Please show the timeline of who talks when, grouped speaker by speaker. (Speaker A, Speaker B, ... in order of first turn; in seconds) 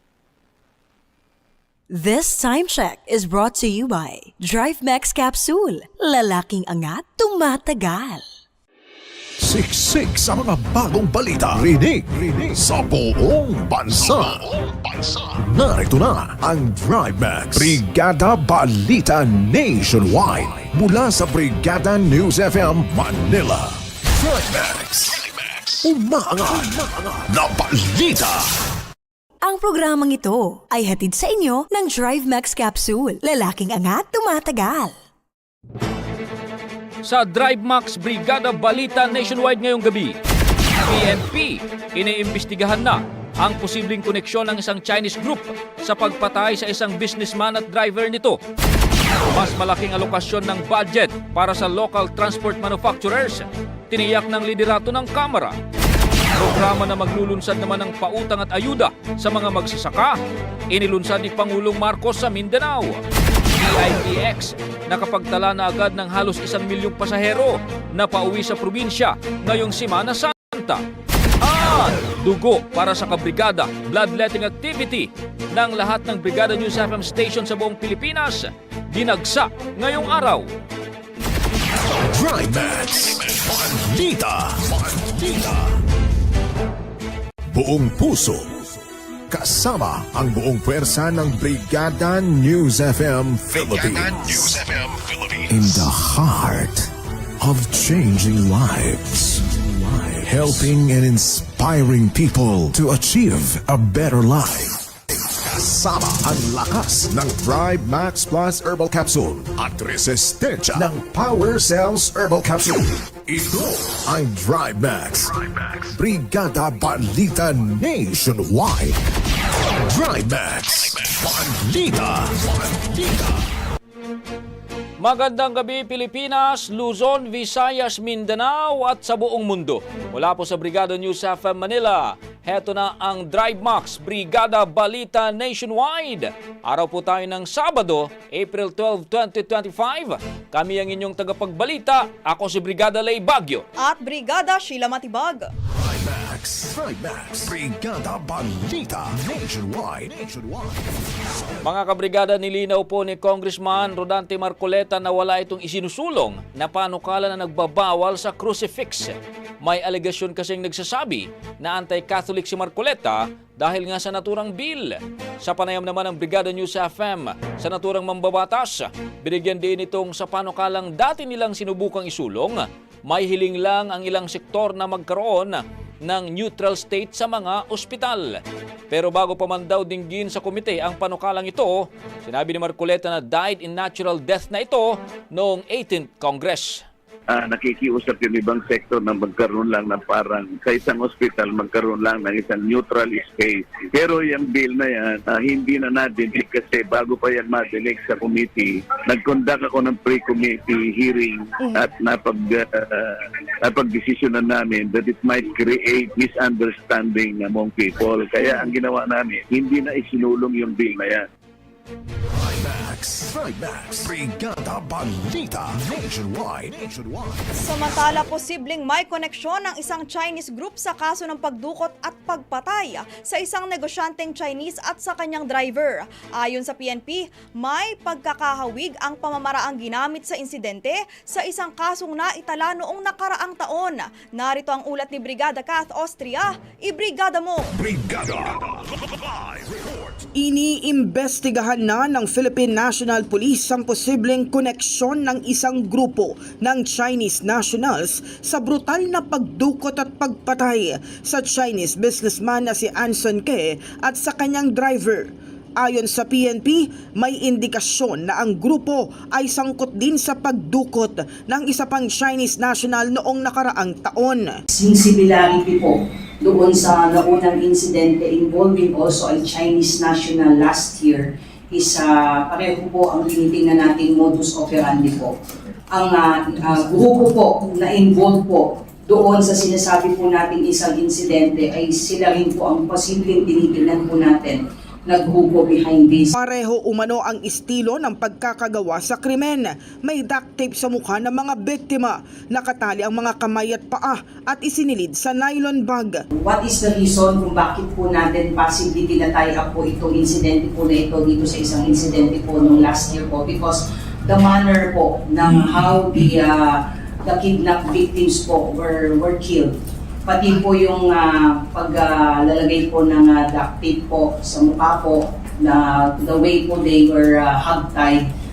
Speaker A: 1.9-8.2, 29.4-34.9
Speaker B: 9.4-14.4, 15.3-25.2, 25.8-28.5, 82.0-85.6, 87.5-88.5, 89.3-94.6, 95.5-109.5, 110.2-119.0, 119.8-123.3, 145.8-150.9, 212.4-217.5, 237.8-238.5
Speaker C: 37.0-40.2, 40.8-48.4, 49.3-55.5, 56.4-60.1, 60.7-63.0, 63.5-70.8, 71.4-80.5, 125.0-143.7, 151.6-186.8
Speaker D: 143.8-145.5, 208.4-208.7, 217.6-237.7
Speaker E: 187.3-211.2
Speaker F: 240.4-264.5, 286.3-296.1
Speaker G: 264.7-275.3, 275.9-286.3, 296.3-309.7, 310.2-318.2